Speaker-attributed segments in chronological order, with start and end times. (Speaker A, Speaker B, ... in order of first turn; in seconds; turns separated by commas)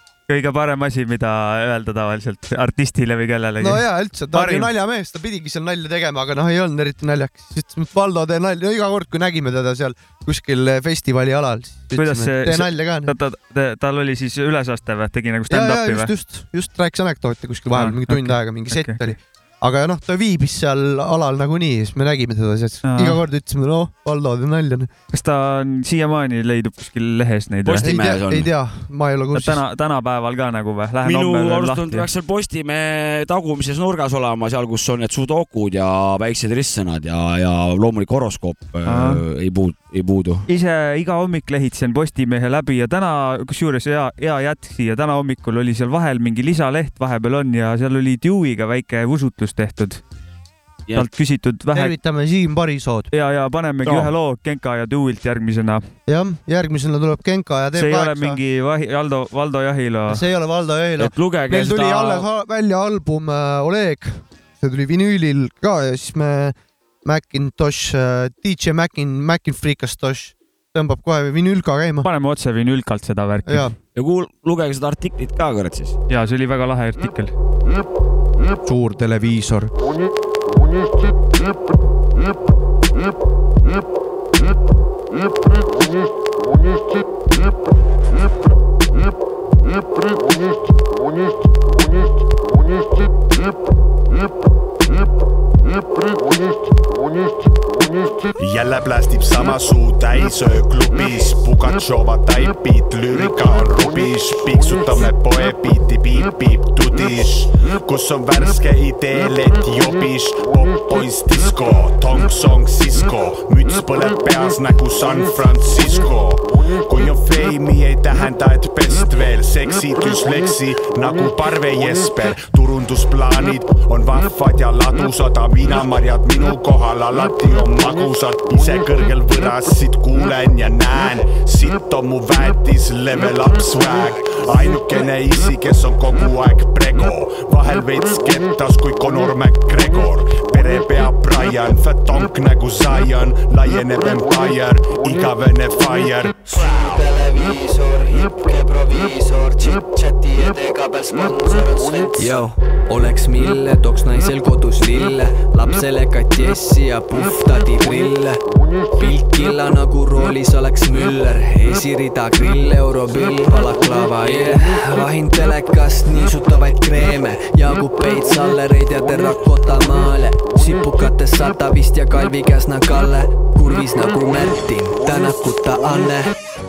Speaker A: 0.3-4.7, Speaker B: 3.6-13.1, Speaker A: 11.9-16.1, Speaker B: 15.5-24.9, Speaker A: 17.7-19.1, Speaker A: 22.8-23.2, Speaker A: 25.1-27.9, Speaker C: 27.6-28.5, Speaker B: 27.8-29.6, Speaker A: 29.3-32.0, Speaker C: 31.0-40.5, Speaker A: 38.9-39.2, Speaker A: 40.5-50.0, Speaker A: 50.9-51.9, Speaker B: 51.7-53.1, Speaker A: 53.1-55.9, Speaker B: 53.8-54.1, Speaker B: 56.1-58.4, Speaker A: 57.7-60.2, Speaker B: 60.1-72.1, Speaker C: 61.0-62.2, Speaker A: 72.0-73.7, Speaker B: 73.5-73.7, Speaker C: 73.9-75.9, Speaker A: 76.1-77.3, Speaker B: 78.6-79.7, Speaker D: 98.4-146.4, Speaker E: 146.5-158.4, Speaker E: 158.9-176.3